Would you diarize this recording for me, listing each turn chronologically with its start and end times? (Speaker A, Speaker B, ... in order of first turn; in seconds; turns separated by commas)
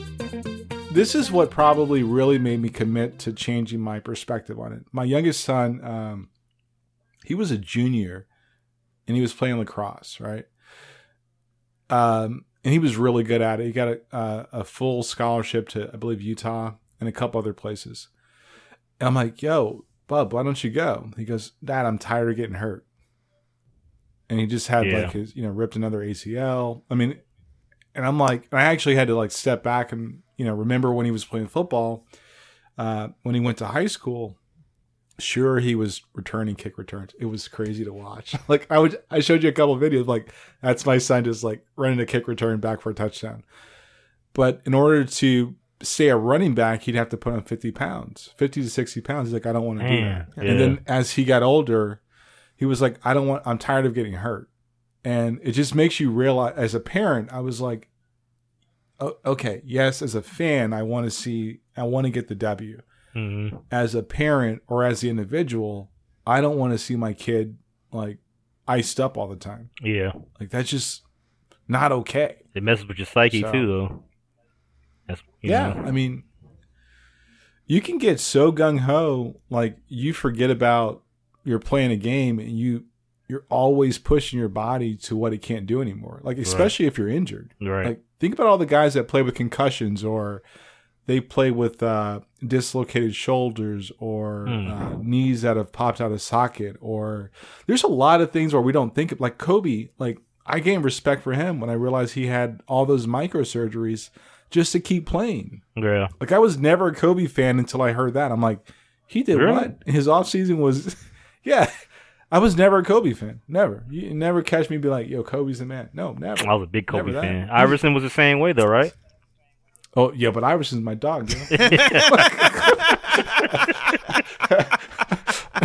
Speaker A: 0.9-6.3, Speaker A: 7.2-8.3, Speaker A: 9.1-10.5, Speaker A: 11.9-18.1, Speaker A: 19.0-22.9, Speaker A: 24.3-27.2, Speaker B: 24.8-25.1, Speaker A: 27.9-32.0, Speaker A: 32.8-34.4, Speaker A: 35.2-43.5, Speaker A: 44.3-52.0, Speaker B: 49.8-50.8, Speaker A: 52.6-54.5, Speaker A: 55.0-57.9, Speaker A: 59.0-62.8, Speaker B: 63.2-63.6, Speaker A: 63.7-69.7, Speaker B: 69.8-70.2, Speaker A: 70.4-71.0, Speaker A: 71.7-72.4, Speaker B: 72.5-74.0, Speaker A: 73.3-73.7, Speaker B: 75.1-75.9, Speaker A: 75.4-76.3, Speaker A: 77.7-90.4, Speaker B: 86.4-86.7, Speaker B: 87.6-87.9, Speaker A: 91.1-105.6, Speaker B: 94.5-95.0, Speaker B: 105.8-106.1, Speaker A: 106.2-111.7, Speaker B: 109.3-109.7, Speaker A: 112.3-117.8, Speaker B: 116.4-118.9, Speaker A: 120.0-123.8, Speaker B: 121.5-122.2, Speaker B: 123.7-124.0, Speaker A: 124.4-124.7